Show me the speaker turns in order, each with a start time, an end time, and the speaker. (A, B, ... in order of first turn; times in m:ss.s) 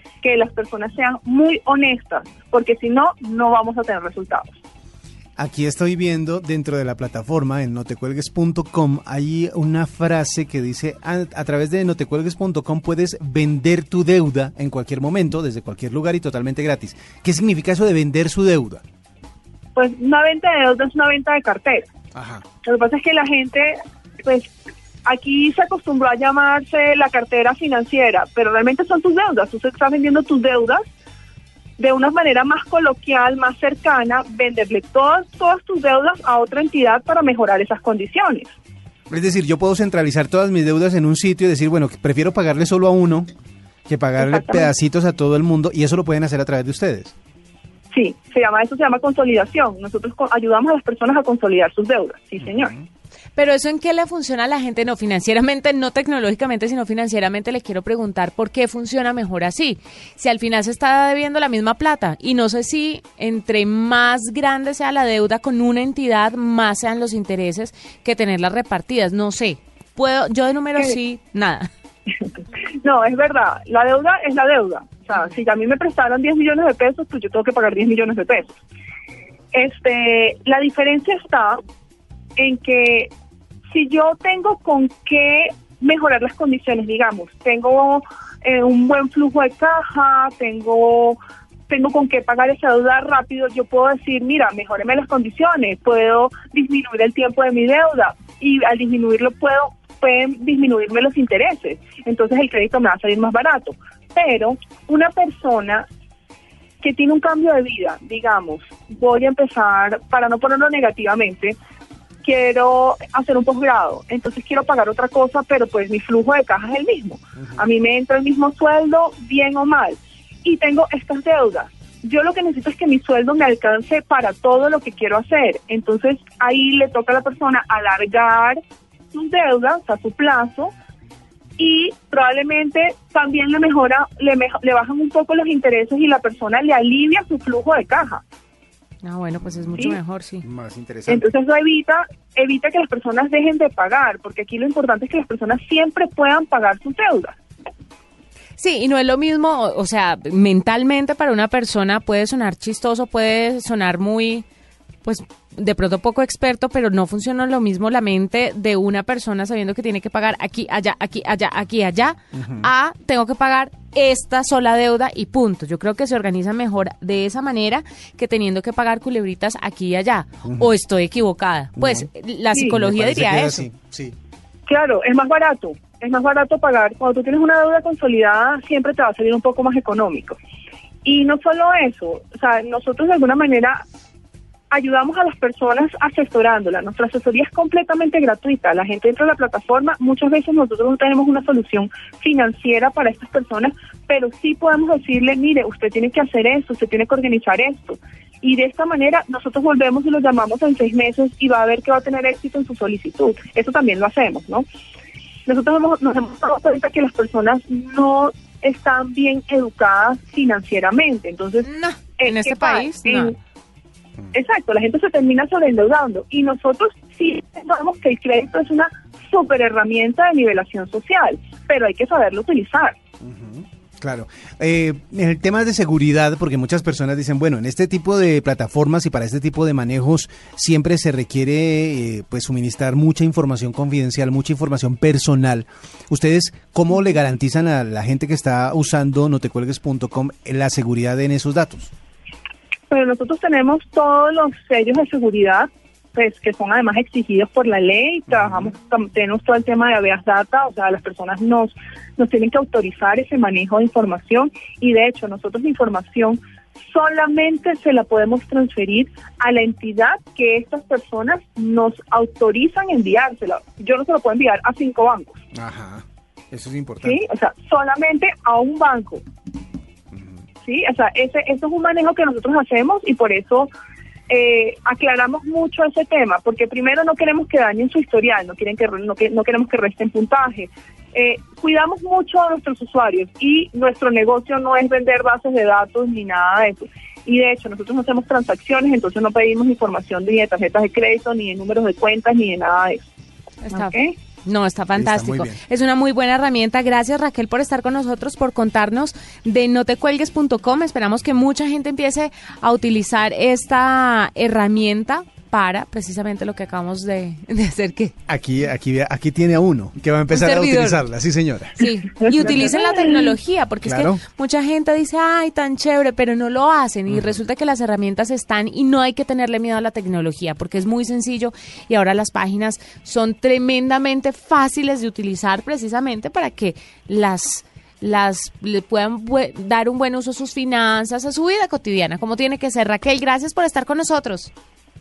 0:00.2-0:04.6 A
0:05.4-0:18.8 B
0:19.8-0:21.9 A
0:22.1-0:22.4 B
0:22.6-0:24.5 A
0:25.1-0:30.9 A
0:31.8-0:38.5 A
0:39.1-0:43.3 B
0:43.9-0:47.1 B
0:44.2-0:44.7 A
0:47.9-0:52.7 A
0:53.4-1:11.7 C
1:12.8-1:18.6 A
1:19.5-1:21.6 A
1:22.4-1:23.1 A
1:23.7-1:31.2 A
1:31.7-1:45.9 A
1:46.8-1:51.6 A
1:52.2-2:08.6 A
2:09.1-2:10.7 A
2:11.6-2:18.2 A
2:19.0-2:20.4 C
2:19.4-2:19.9 B
2:20.4-2:21.2 B
2:21.1-2:27.4 A
2:28.6-2:34.4 C
2:35.0-2:53.6 C
2:42.3-2:42.7 B
2:51.8-2:52.1 B
2:52.5-2:52.8 A
2:52.8-2:54.1 B
2:54.7-3:00.4 A
3:01.0-3:03.8 A
3:04.7-3:24.7 A
3:25.5-3:31.7 A
3:31.6-3:33.4 C
3:32.2-3:33.3 A
3:34.3-3:43.0 A
3:43.2-4:01.9 B
4:02.9-4:25.4 A
4:25.5-4:27.2 B
4:27.0-4:29.2 A
4:30.1-4:30.4 B
4:30.6-4:33.7 A
4:34.3-4:53.1 A
4:53.6-5:08.1 C
4:53.7-4:54.2 A
4:55.0-4:55.6 B
5:08.3-5:11.8 B
5:10.3-5:11.0 C
5:11.8-5:34.5 C
5:12.2-5:13.3 A
5:13.8-5:14.2 B